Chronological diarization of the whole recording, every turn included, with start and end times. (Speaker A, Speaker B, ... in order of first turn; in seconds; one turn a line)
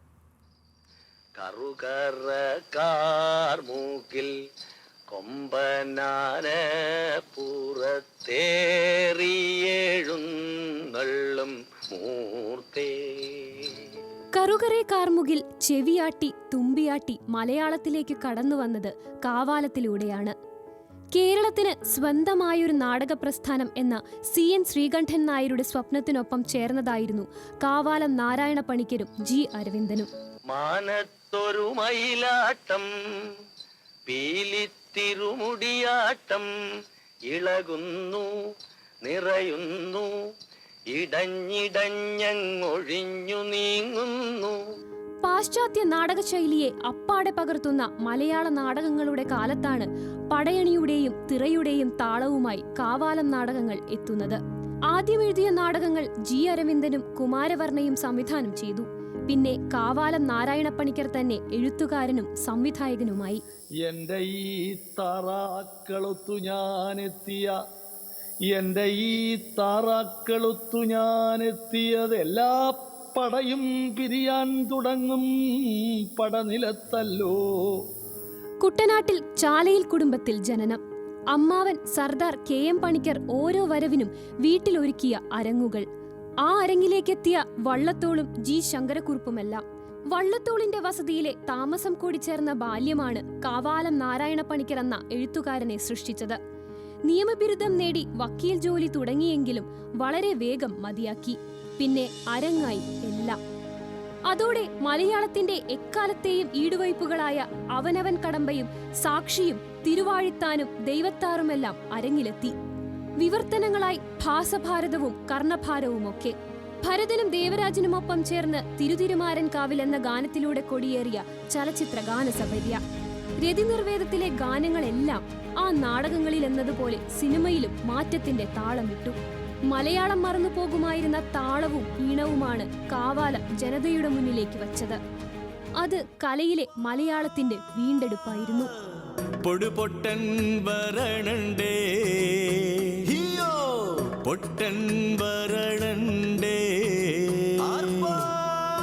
Speaker A: 1.4-4.3
Speaker A: 5.1-6.6
Speaker A: 7.3-13.3
Speaker B: 14.3-20.4
Speaker B: 21.1-30.1
Speaker A: 30.5-32.9
Speaker A: 34.1-36.5
Speaker A: 37.3-38.3
Speaker A: 39.0-40.1
Speaker A: 40.9-44.6
Speaker B: 45.2-63.4
Speaker C: 63.8-67.6
Speaker C: 68.5-77.8
Speaker B: 78.6-80.8
Speaker B: 81.3-85.9
Speaker B: 86.4-96.4
Speaker B: 97.1-103.4
Speaker B: 104.3-112.5
Speaker B: 113.2-122.8
Speaker B: 123.4-129.2
Speaker B: 129.7-135.0
Speaker B: 135.8-138.7
Speaker D: 139.4-148.4